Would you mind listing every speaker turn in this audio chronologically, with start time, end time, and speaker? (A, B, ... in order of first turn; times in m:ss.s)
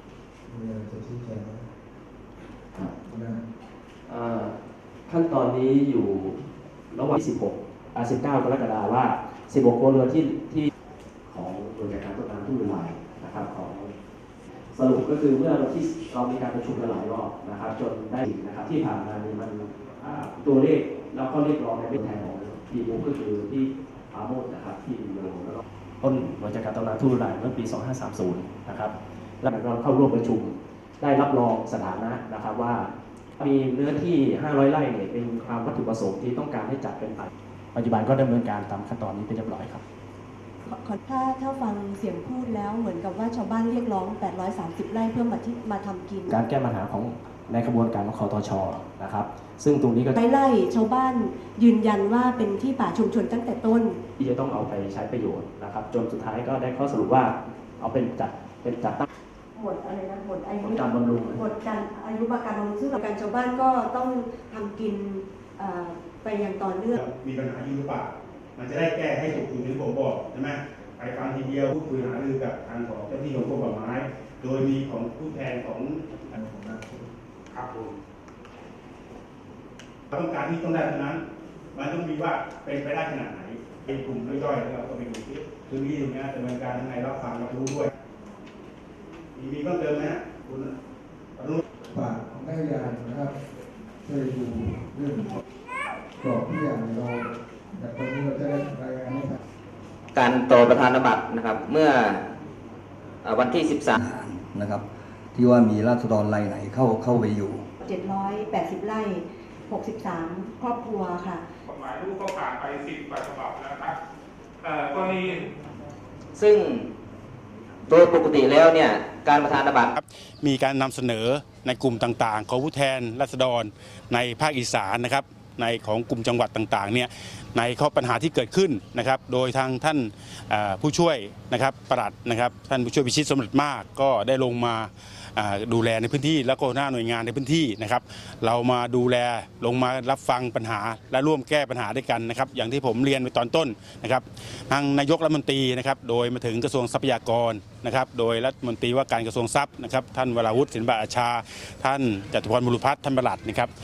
0:00.4-0:01.7 A
0:03.0-0:03.4 A
0:04.0-0:04.5 B
0:05.1-0:10.7 B
0:11.3-0:13.9 B
0:14.7-0:39.8 B
0:40.6-0:46.4 C
0:46.3-0:50.2 B
0:50.2-0:54.0 C
0:54.2-0:59.0 B
0:59.5-1:07.0 C
1:00.6-1:01.4 B
1:06.9-1:16.3 D
1:16.3-1:17.1 A
1:17.5-1:18.0 D
1:20.1-1:21.2 D
1:21.7-1:27.9 D
1:29.3-1:30.7 D
1:31.4-1:31.6 D
1:31.9-1:33.3 A
1:34.0-1:35.4 A
1:36.2-1:39.4 A
1:40.1-1:42.2 E
1:43.2-1:44.0 E
1:44.0-1:47.6 F
1:47.8-1:51.4 C
1:51.7-1:53.9 G
1:54.6-1:55.5 G
1:56.3-1:56.8 E
1:57.9-1:59.9 E
1:59.9-2:33.7 D